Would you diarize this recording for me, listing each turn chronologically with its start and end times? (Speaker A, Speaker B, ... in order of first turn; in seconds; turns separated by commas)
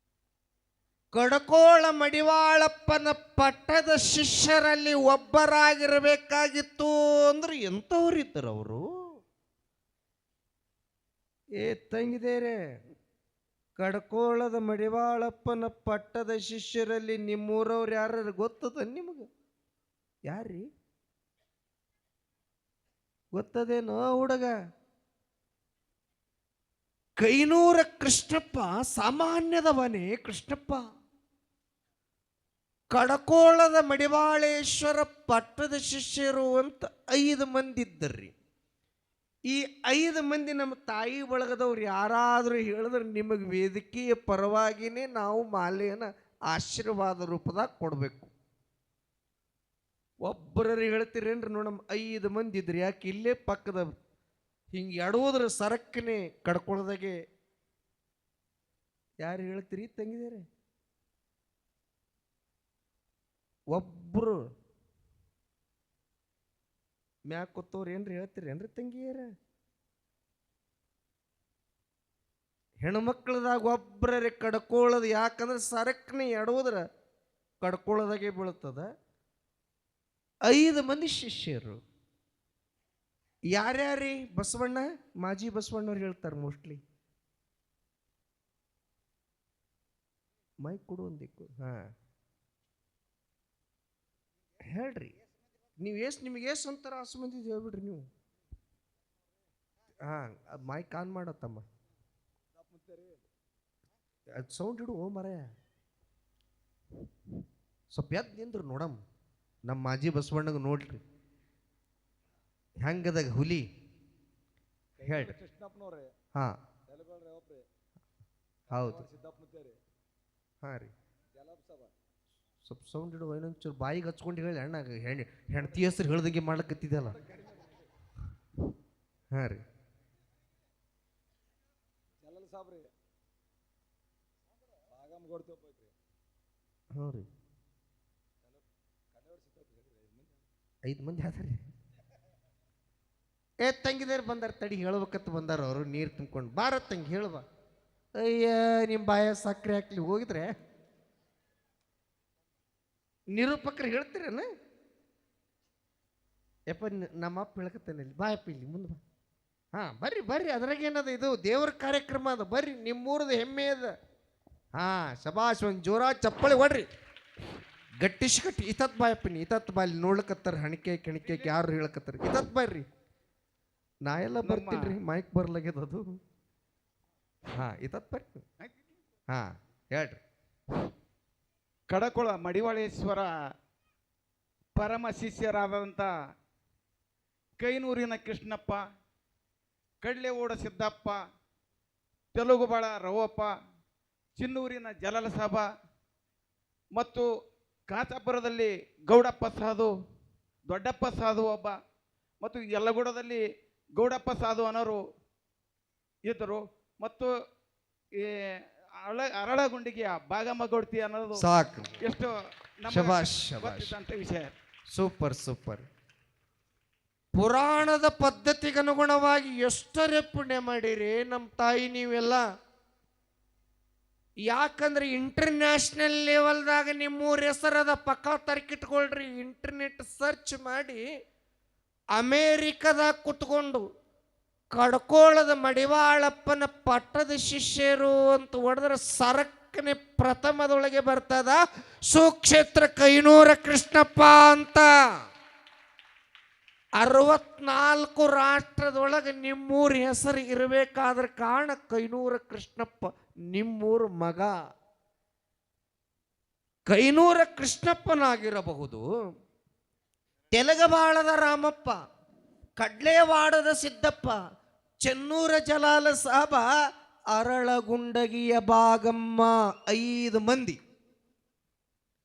Speaker A: 1.1-8.8, Speaker A: 11.6-12.6, Speaker A: 13.8-19.2, Speaker A: 20.3-20.7, Speaker A: 23.3-24.5, Speaker A: 27.2-30.8, Speaker A: 32.9-38.3, Speaker A: 39.5-48.3, Speaker A: 50.2-53.9, Speaker A: 54.7-57.1, Speaker A: 59.2-60.4, Speaker A: 63.7-64.4, Speaker A: 67.3-69.3, Speaker A: 72.8-76.8, Speaker A: 77.6-78.9, Speaker A: 80.5-81.8, Speaker A: 83.5-86.8, Speaker A: 90.6-91.9, Speaker A: 94.7-95.1, Speaker A: 95.8-98.1, Speaker A: 100.0-101.7, Speaker B: 102.6-103.2, Speaker A: 104.3-105.5, Speaker A: 107.9-109.0, Speaker A: 109.7-111.0, Speaker A: 112.8-113.7, Speaker B: 115.0-116.1, Speaker A: 115.0-115.4, Speaker B: 116.9-117.7, Speaker A: 118.7-119.1, Speaker B: 118.8-119.8, Speaker A: 120.6-120.9, Speaker B: 121.3-121.9, Speaker A: 122.7-127.2, Speaker B: 127.3-127.8, Speaker A: 129.3-129.6, Speaker B: 132.2-132.9, Speaker B: 134.9-135.9, Speaker A: 136.9-137.2, Speaker B: 139.1-140.3, Speaker A: 140.9-141.6, Speaker A: 143.6-147.4, Speaker A: 148.2-150.5, Speaker A: 153.3-154.5, Speaker A: 156.7-159.0, Speaker A: 159.8-163.9, Speaker A: 164.8-166.8, Speaker A: 168.0-172.8, Speaker A: 174.1-176.1, Speaker C: 174.4-175.0, Speaker A: 177.6-178.4, Speaker A: 179.3-180.2, Speaker C: 181.9-183.3, Speaker C: 184.8-186.1, Speaker C: 187.6-188.8, Speaker C: 190.0-191.2, Speaker C: 192.3-193.5, Speaker C: 194.4-195.7, Speaker C: 196.9-197.3, Speaker C: 197.9-199.9, Speaker C: 200.7-201.8, Speaker C: 202.4-203.4, Speaker C: 204.0-205.0, Speaker C: 206.2-207.3, Speaker C: 208.2-211.4, Speaker A: 211.3-212.0, Speaker C: 212.0-214.5, Speaker A: 212.9-213.9, Speaker A: 214.9-215.8, Speaker A: 217.3-222.4, Speaker A: 224.5-231.0, Speaker A: 232.2-233.9, Speaker A: 234.8-244.9, Speaker A: 247.0-254.5, Speaker A: 256.9-259.0, Speaker A: 260.5-262.0, Speaker A: 262.8-264.4, Speaker A: 265.0-266.7, Speaker A: 267.4-270.8